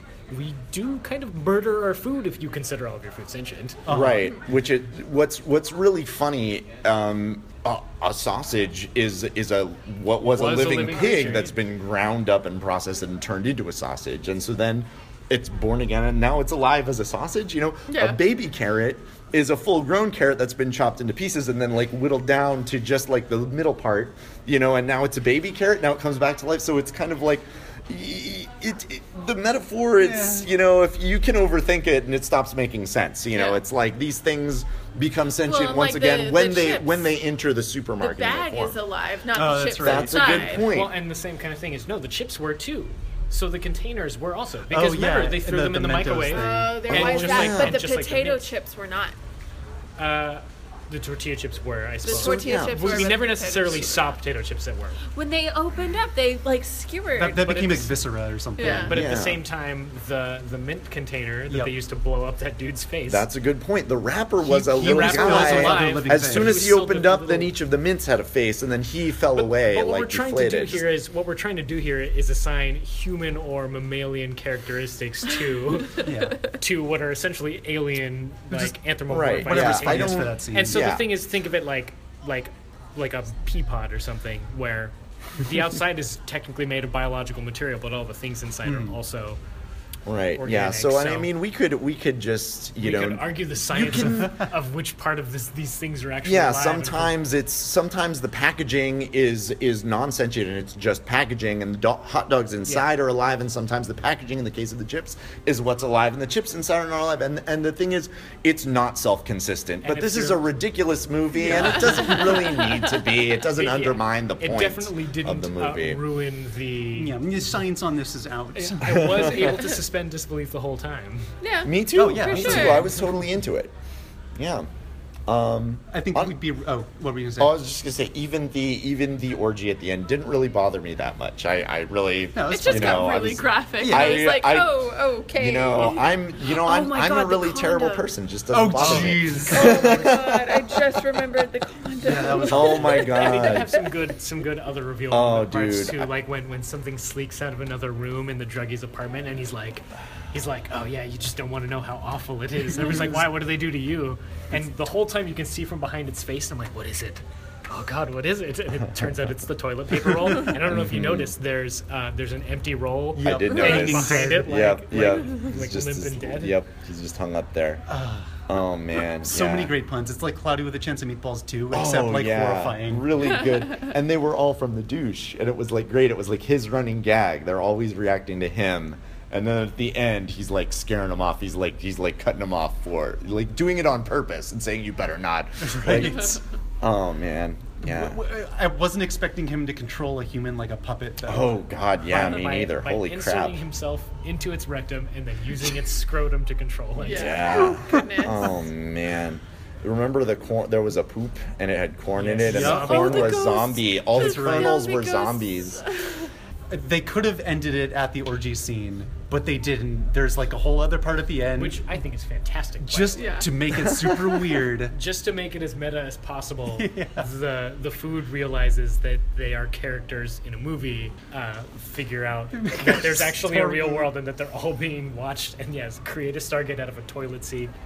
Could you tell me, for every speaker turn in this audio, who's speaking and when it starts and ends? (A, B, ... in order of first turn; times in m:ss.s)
0:00.3-0:03.8 A
0:03.9-0:04.3 B
0:03.9-0:38.8 C
0:10.3-0:11.5 A
0:17.9-0:18.2 D
0:30.0-0:30.5 B
0:33.3-0:33.6 D
0:35.4-0:37.2 D
0:38.0-0:40.6 D
0:39.3-0:40.5 B
0:39.8-0:40.9 C
0:40.3-0:48.5 A
0:44.7-0:47.4 B
0:46.3-0:49.2 D
0:46.9-0:47.8 C
0:50.0-0:55.0 A
0:52.0-0:54.1 D
0:52.1-0:53.1 C
0:55.1-0:57.6 D
0:57.2-0:59.1 B
0:57.4-0:58.0 A
0:58.6-0:59.0 D
0:58.6-1:03.3 A
0:58.9-0:59.4 C
1:03.1-1:10.8 C
1:04.4-1:06.7 B
1:04.8-1:07.5 A
1:09.4-1:29.4 A
1:16.0-1:16.4 B
1:18.5-1:18.8 B
1:19.1-1:21.1 C
1:19.4-1:20.9 B
1:28.6-1:29.0 B
1:30.1-1:34.4 C
1:30.4-1:31.3 A
1:32.8-1:37.2 A
1:34.2-1:34.4 B
1:36.2-1:56.0 C
1:49.8-1:50.5 A
1:51.4-1:52.4 B
1:53.5-1:57.2 A
1:56.9-1:59.4 B
1:58.6-2:01.3 A
1:58.9-1:59.5 C
2:01.4-2:02.9 D
2:01.6-2:03.7 C
2:02.0-2:03.1 B
2:04.4-2:04.7 C
2:05.3-2:06.4 C
2:05.9-2:07.6 B
2:07.4-2:14.8 C
2:12.3-2:14.3 B
2:12.5-2:18.1 D
2:15.4-2:20.8 C
2:18.5-2:19.9 B
2:19.4-2:23.8 D
2:22.0-2:23.1 B
2:22.5-2:23.7 C
2:23.0-2:46.6 A
2:25.1-2:26.1 C
2:40.7-2:41.3 C
2:43.2-2:44.7 B
2:43.2-2:47.8 C
2:47.9-2:48.4 B
2:48.5-2:49.8 C
2:49.2-2:53.1 B
2:51.7-3:08.2 C
3:05.6-3:06.4 B
3:07.8-3:11.6 B
3:11.3-3:13.6 C
3:12.1-3:17.5 A
3:17.0-3:18.6 D
3:17.0-3:25.8 C
3:17.6-3:18.1 B
3:22.2-3:23.4 A
3:22.3-3:23.6 B
3:22.7-3:26.3 D
3:24.1-3:24.8 B
3:26.7-3:31.9 B
3:31.5-3:33.4 A
3:32.8-3:35.0 B
3:33.2-3:33.5 D
3:34.9-3:47.7 A
3:36.7-3:37.3 B
3:42.5-3:44.1 B